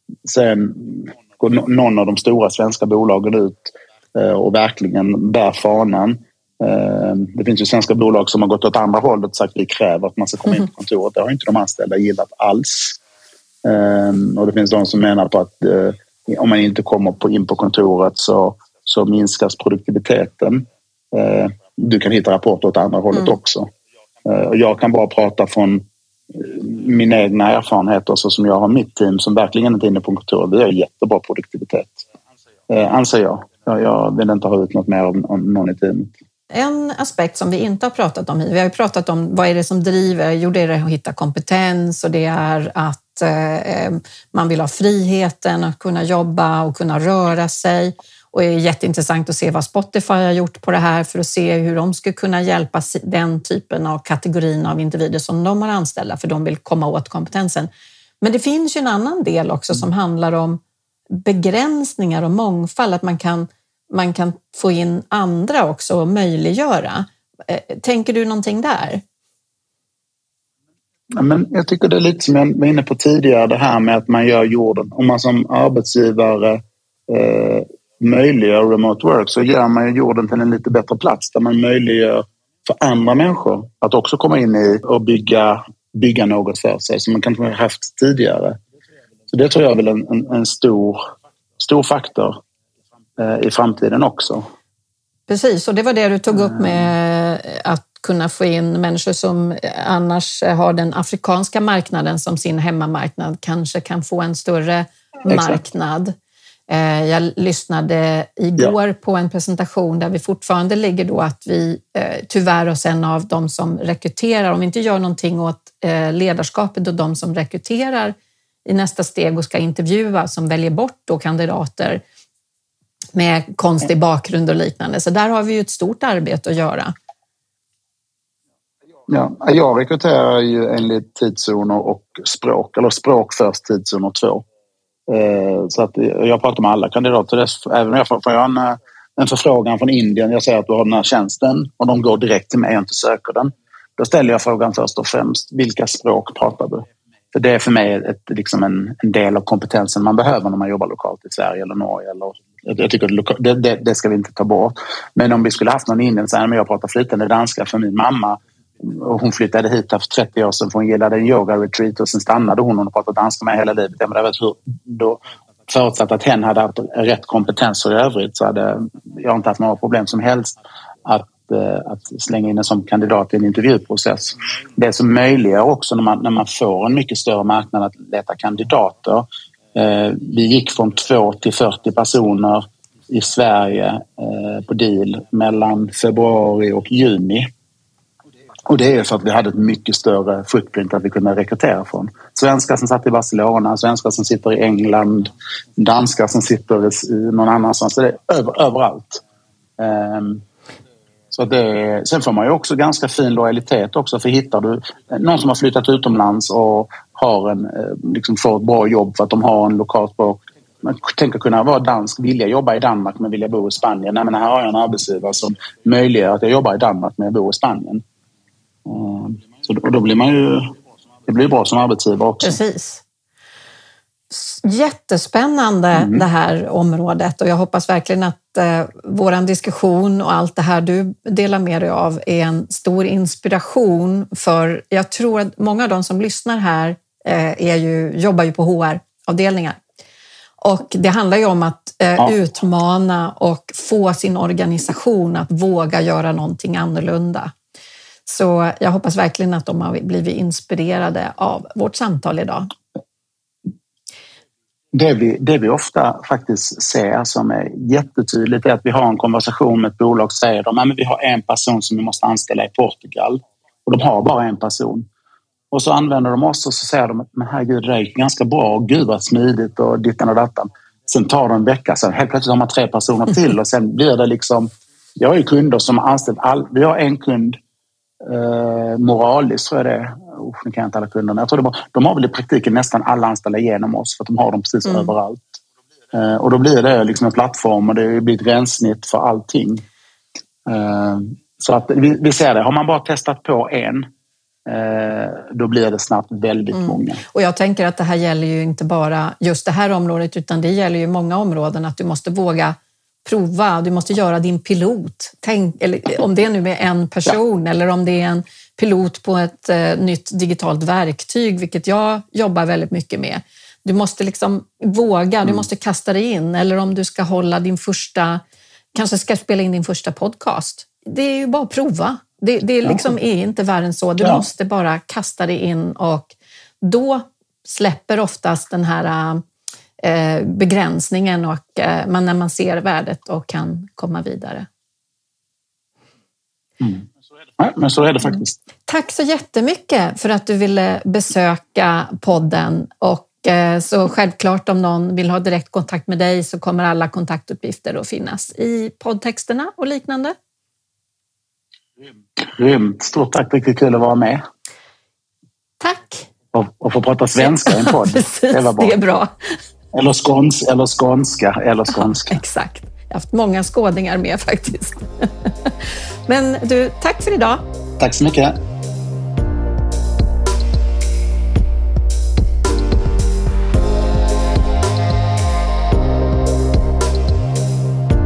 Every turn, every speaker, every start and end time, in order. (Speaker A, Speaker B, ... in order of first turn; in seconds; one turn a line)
Speaker A: 0.2-13.0
Speaker A: 13.6-23.7
Speaker A: 24.2-32.0
Speaker A: 32.7-36.1
Speaker B: 36.5-57.7
Speaker B: 58.2-69.0
Speaker A: 71.1-88.6
Speaker A: 89.3-91.0
Speaker A: 91.6-92.4
Speaker A: 93.2-94.5
Speaker B: 95.3-106.1
Speaker A: 96.3-96.9
Speaker A: 105.3-105.6
Speaker B: 106.7-122.0
Speaker B: 123.1-126.9
Speaker A: 129.1-134.4
Speaker A: 135.1-187.5
Speaker A: 188.7-199.2
Speaker A: 199.8-200.4
Speaker A: 201.3-218.0
Speaker A: 218.8-220.7
Speaker A: 221.2-222.6
Speaker B: 222.4-223.0
Speaker B: 224.3-239.8
Speaker A: 225.9-226.2
Speaker B: 240.6-247.5
Speaker B: 248.2-252.7
Speaker A: 254.9-265.1
Speaker A: 265.7-277.6
Speaker A: 278.2-285.6
Speaker A: 286.1-289.8
Speaker A: 290.6-294.1
Speaker A: 294.6-297.2
Speaker B: 296.7-318.4
Speaker B: 318.9-329.4
Speaker A: 322.8-323.1
Speaker A: 324.2-324.4
Speaker B: 330.0-334.7
Speaker A: 336.8-337.0
Speaker A: 337.6-338.6
Speaker B: 338.9-350.4
Speaker A: 352.4-354.4
Speaker B: 355.8-356.3
Speaker A: 356.5-358.9
Speaker B: 357.4-359.6
Speaker A: 359.9-362.4
Speaker B: 362.0-367.6
Speaker A: 368.0-368.6